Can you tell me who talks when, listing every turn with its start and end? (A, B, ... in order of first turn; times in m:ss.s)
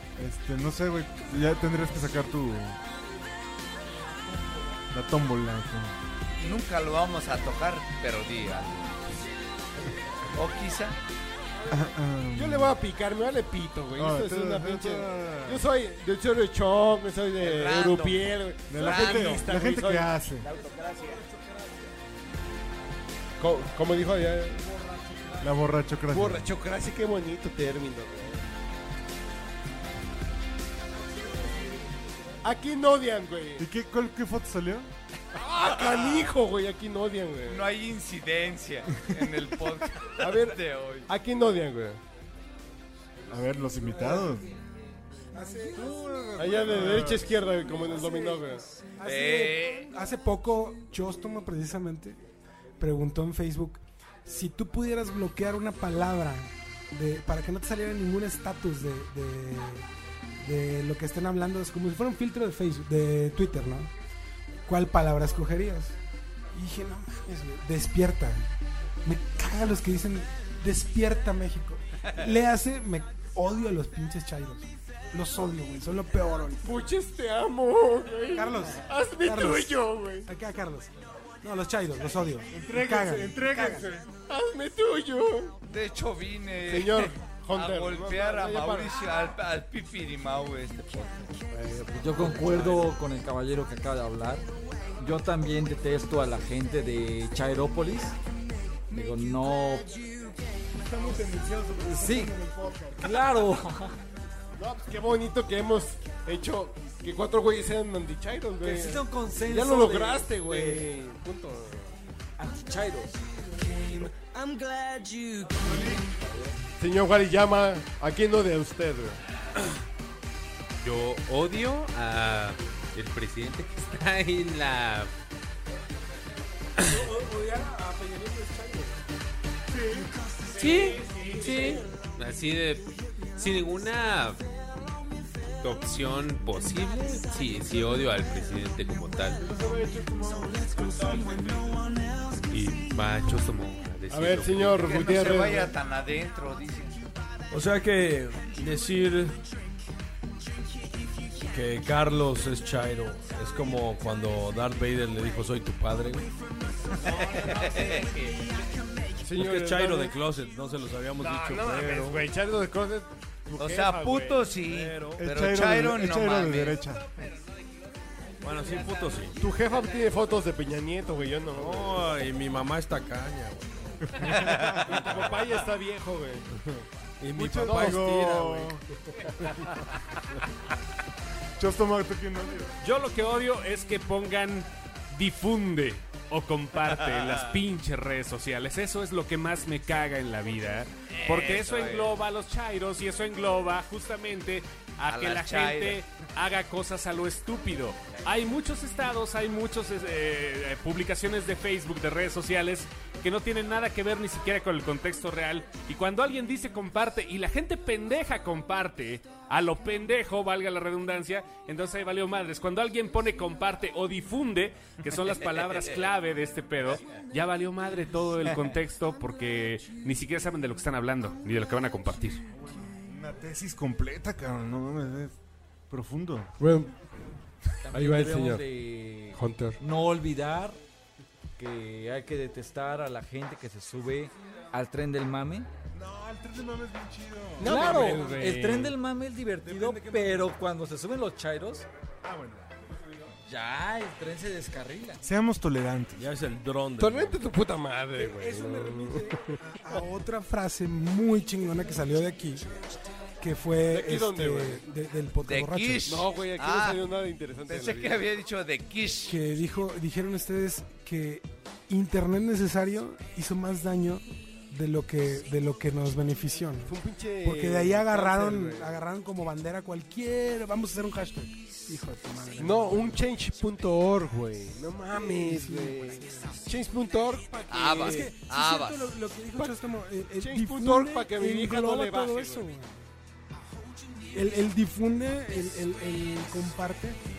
0:00.2-0:02.8 A
0:04.9-0:05.9 A
0:06.4-0:09.2 B
0:10.3-0:11.0 B
0:11.7-0:12.8 A
0:12.3-0:20.1 C
0:14.0-0:15.6 A
0:17.4-0:19.4 B
0:18.7-0:20.5 A
0:20.4-0:21.2 D
0:23.4-0:24.7 C
0:25.4-0:26.4 A
0:26.1-0:28.4 C
0:32.4-0:33.6 C
0:33.6-0:34.9 A
0:35.3-0:37.7 C
0:35.7-0:36.3 B
0:37.4-0:41.1 B
0:40.2-0:42.0 C
0:43.3-0:44.4 A
0:45.3-0:45.8 E
0:45.7-0:47.3 A
0:46.4-0:48.6 C
0:47.9-0:48.4 E
0:49.0-0:52.2 E
0:49.0-0:49.9 B
0:52.8-0:59.9 E
1:00.4-1:03.9 E
1:04.7-1:06.0 E
1:06.5-1:08.5 E
1:09.0-1:16.6 E
1:16.6-1:20.3 C
1:18.3-1:23.9 E
1:22.5-1:24.1 A
1:24.3-1:25.5 C
1:25.7-1:31.5 B
1:26.7-1:29.0 C
1:31.7-1:32.9 C
1:31.9-1:34.4 F
1:35.0-1:38.2 F
1:38.9-1:39.9 F
1:40.8-1:43.1 A
1:41.8-1:42.4 F
1:43.0-1:44.0 F
1:44.6-1:51.9 C
1:48.6-1:50.8 F
1:52.4-1:53.2 F
1:53.9-1:56.1 G
1:55.6-1:56.0 A
1:56.2-1:56.5 F
1:56.8-1:59.2 C
2:00.8-2:05.1 H
2:06.8-2:08.9 E
2:09.7-2:10.1 A
2:10.6-2:11.8 D
2:10.6-2:14.4 H
2:11.4-2:11.7 E
2:15.6-2:19.4 H
2:19.4-2:21.5 A
2:22.5-2:24.8 H
2:24.1-2:25.7 C
2:24.8-2:27.0 B
2:27.5-2:29.4 I
2:31.5-2:36.3 I
2:37.0-2:38.1 B
2:39.2-2:40.2 C
2:39.3-2:42.2 I
2:41.2-2:44.6 C
2:43.6-2:46.8 B
2:44.6-2:45.2 I
2:45.2-2:47.2 A
2:48.4-2:49.4 I
2:48.5-2:49.1 D
2:49.4-2:52.2 C
2:51.5-2:54.3 I
2:54.2-2:55.1 A
2:54.3-2:54.9 B
2:54.8-2:56.4 C
2:54.9-2:55.2 I
2:57.2-2:58.8 I
2:57.3-2:58.8 A
2:57.6-2:58.2 C
3:01.6-3:02.8 A
3:02.8-3:42.4 D
3:06.8-3:07.6 B
3:11.1-3:12.2 B
3:15.0-3:16.0 B
3:38.5-3:38.7 B
3:42.6-3:45.3 A
3:45.9-3:46.5 A
3:46.6-3:46.9 C
3:47.8-3:50.8 F
3:47.9-3:48.6 C
3:49.3-3:49.8 C
3:51.6-3:55.7 F
3:55.9-3:58.0 A
3:57.6-3:59.0 C
3:57.6-4:01.8 F
3:59.7-4:00.4 E
3:59.8-4:00.1 A
4:02.2-4:02.7 A
4:03.4-4:05.2 F
4:05.2-4:06.2 A
4:06.2-4:07.4 I
4:07.0-4:09.5 C
4:08.2-4:12.7 E
4:13.4-4:16.1 E
4:13.9-4:14.8 C
4:15.4-4:17.1 B
4:16.0-4:18.3 C
4:17.7-4:19.4 B
4:19.3-4:33.2 E
4:26.8-4:29.0 C
4:32.6-4:38.3 C
4:35.1-4:36.6 E
4:37.5-4:43.0 E
4:37.7-4:39.1 B
4:40.4-4:42.6 C
4:44.3-4:47.2 E